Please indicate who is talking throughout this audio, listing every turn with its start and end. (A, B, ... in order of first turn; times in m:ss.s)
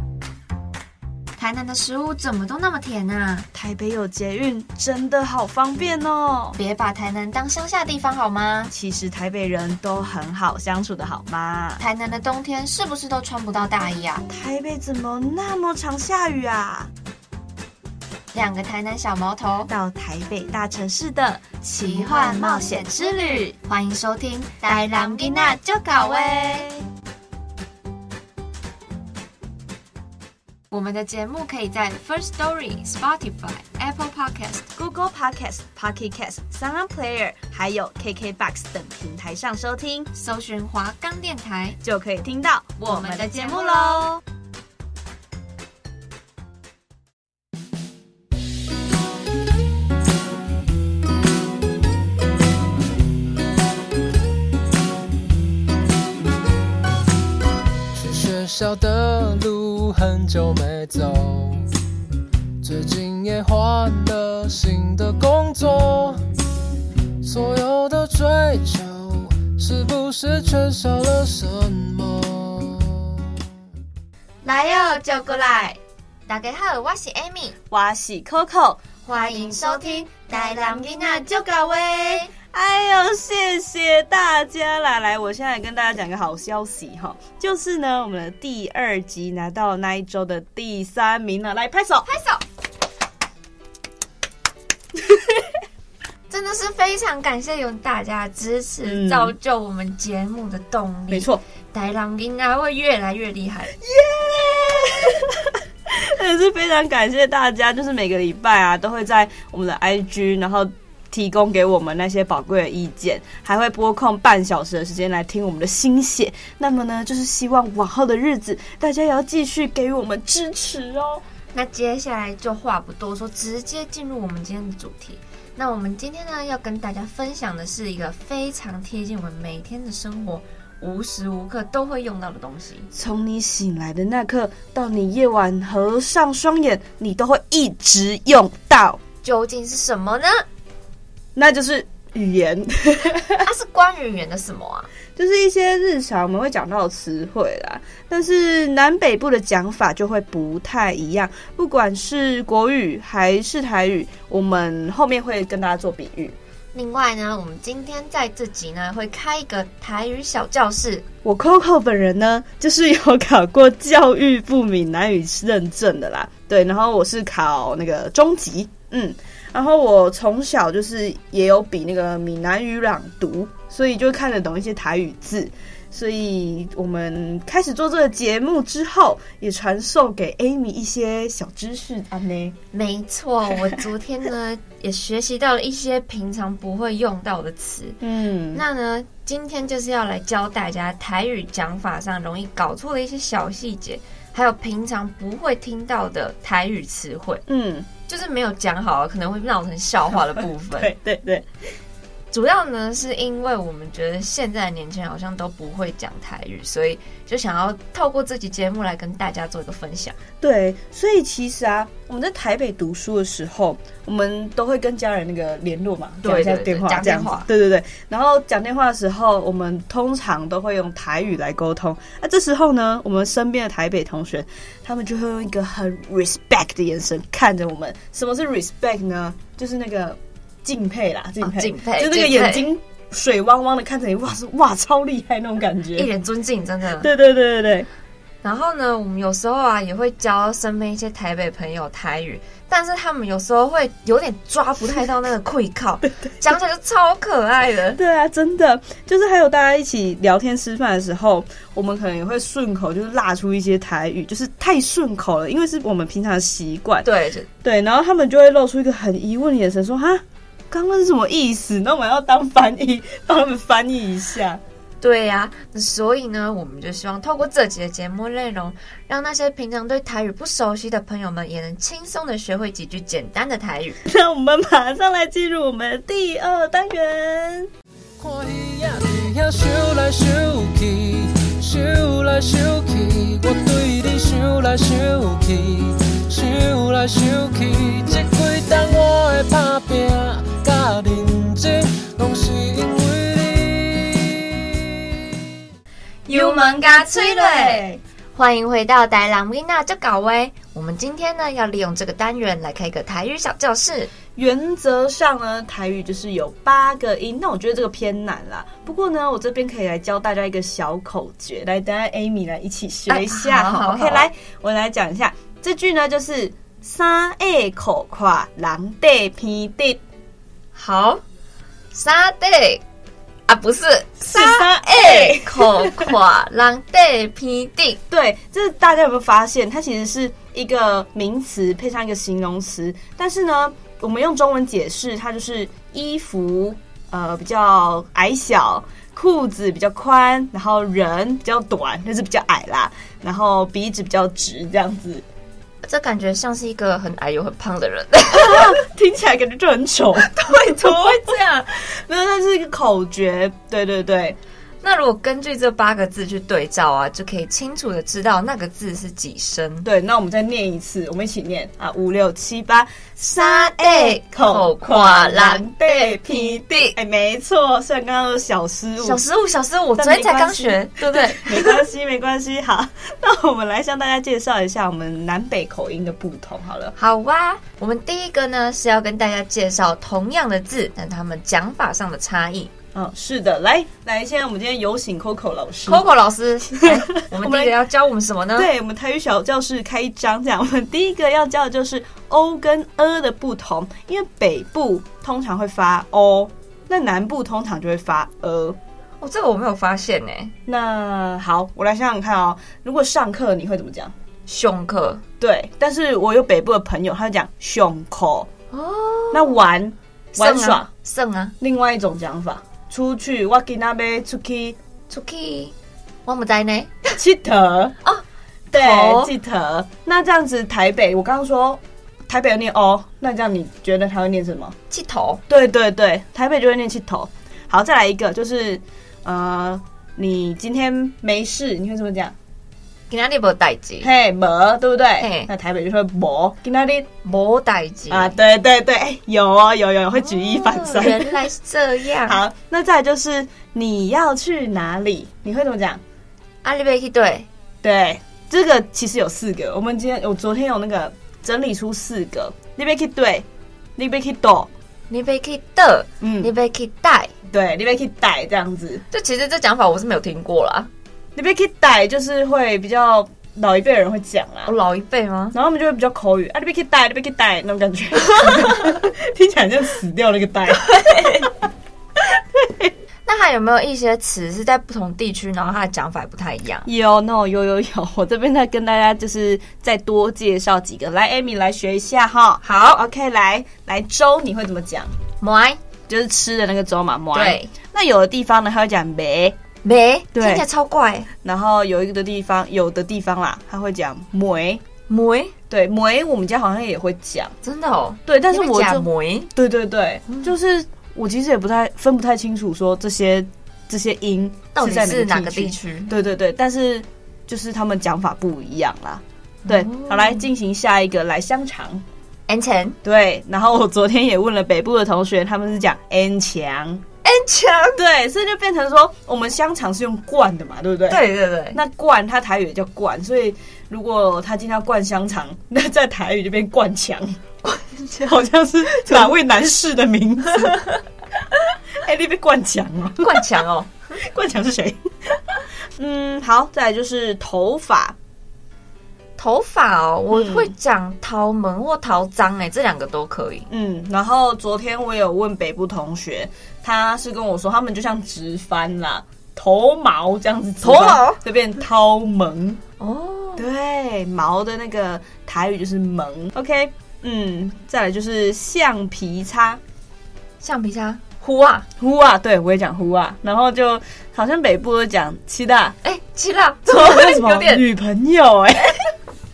0:01.4-0:03.5 A
0:03.5-0:06.6 B
0:06.6-0:08.7 A
0:08.7-0:11.8 B
0:11.8-0:14.2 A
0:14.3-0:16.9 B
0:18.3-0:19.7 A
0:19.7-0:23.6 B
0:21.8-0:26.7 A
0:24.7-0:26.8 B
0:30.7-0:34.7 A
0:34.8-0:40.1 B
0:40.2-0:41.8 A
0:41.8-0:44.2 B
0:42.8-0:44.2 A
0:57.9-1:01.8 C
1:02.6-1:06.2 C
1:07.2-1:13.2 C
1:14.4-1:15.8 A
1:16.3-1:17.6 A
1:17.7-1:32.1 B
1:19.0-1:22.3 A
1:32.0-1:32.4 A
1:36.3-1:43.8 A
1:38.9-1:39.3 B
1:41.1-1:41.4 B
1:43.8-2:01.2 B
2:01.5-2:12.9 A
2:12.9-2:19.0 B
2:19.2-2:20.5 A
2:21.4-2:23.5 B
2:23.4-2:24.9 A
2:25.2-2:36.4 B
2:36.7-2:41.0 A
2:41.2-3:02.6 B
3:02.7-3:08.0 A
3:08.0-3:08.6 B
3:08.5-3:17.4 A
3:17.5-3:17.9 B
3:18.1-3:20.9 A
3:20.3-3:21.5 B
3:22.3-3:30.2 A
3:30.4-3:56.1 B
3:36.2-3:37.5 A
3:51.4-3:52.7 A
3:56.0-3:57.1 A
3:57.0-3:57.9 B
3:58.4-4:08.0 A
4:08.0-4:17.1 B
4:17.0-4:17.5 A
4:17.6-4:24.6 B
4:25.0-4:34.0 A
4:34.0-4:37.7 B
4:38.2-4:55.4 C
4:56.3-5:04.1 A
4:56.3-4:58.0 B
5:04.4-5:20.0 B
5:13.1-5:14.3 A
5:20.8-5:21.2 A
5:21.9-5:22.8 A
5:23.5-5:28.0 A
5:24.2-5:26.2 B
5:28.1-5:45.2 B
5:45.8-5:48.8 A
5:48.3-5:54.4 B
5:50.2-5:51.7 A
5:54.8-5:59.9 A
5:59.8-6:09.2 B
6:03.3-6:07.0 A
6:09.0-6:11.8 A
6:10.0-6:17.0 B
6:17.0-6:22.7 A
6:22.9-6:26.1 B
6:25.9-6:28.7 A
6:26.8-6:27.8 B
6:28.6-6:38.8 B
6:39.2-6:40.5 A
6:40.7-6:44.1 B
6:44.5-6:45.2 A
6:45.4-6:48.5 B
6:48.7-6:49.6 A
6:49.3-6:50.9 B
6:50.4-6:51.5 A
6:51.6-6:54.8 B
6:55.1-6:55.7 A
6:56.2-6:57.2 A
6:57.2-6:58.0 B
6:58.0-6:59.3 A
6:58.7-7:04.8 B
7:04.9-7:05.4 A
7:05.5-7:12.3 B
7:13.1-7:14.1 A
7:14.0-7:17.1 B
7:15.2-7:15.5 A
7:17.2-7:18.4 A
7:18.1-7:21.5 B
7:20.2-7:22.4 A
7:22.2-7:26.0 B
7:26.6-7:27.5 A
7:27.8-7:34.7 B
7:35.1-7:37.3 A
7:36.2-7:36.5 B
7:37.5-7:39.0 B
7:39.1-7:40.9 A
7:41.4-7:44.7 B
7:44.7-7:45.6 A
7:45.5-7:51.5 B
7:48.4-7:48.8 A
7:50.9-7:51.5 A
7:52.6-7:52.9 B
7:53.3-7:56.9 A
7:56.8-8:05.1 B
8:02.6-8:03.0 A
8:05.4-8:05.8 A
8:06.1-8:09.6 B
8:07.3-8:07.7 A
8:09.8-8:11.3 A
8:10.3-8:10.6 B
8:11.4-8:14.8 B
8:15.1-8:15.5 A
8:15.7-8:17.5 B
8:17.6-8:19.5 A
8:18.3-8:32.0 B
8:24.8-8:26.1 A
8:29.7-8:30.4 A
8:32.5-8:33.0 A
8:33.0-8:37.0 B
8:37.2-8:38.0 A
8:38.0-8:47.4 B
8:41.1-8:41.8 A
8:48.0-8:50.9 B
8:52.0-8:53.5 B
8:53.2-8:53.9 A
8:54.2-8:58.2 B
8:59.4-9:03.7 A
9:00.3-9:00.7 B
9:03.7-9:12.8 B
9:10.8-9:11.4 A
9:13.0-9:13.7 A
9:13.6-9:19.8 B
9:20.6-9:21.9 A
9:22.0-9:26.0 B
9:26.0-9:27.8 A
9:26.9-9:29.0 B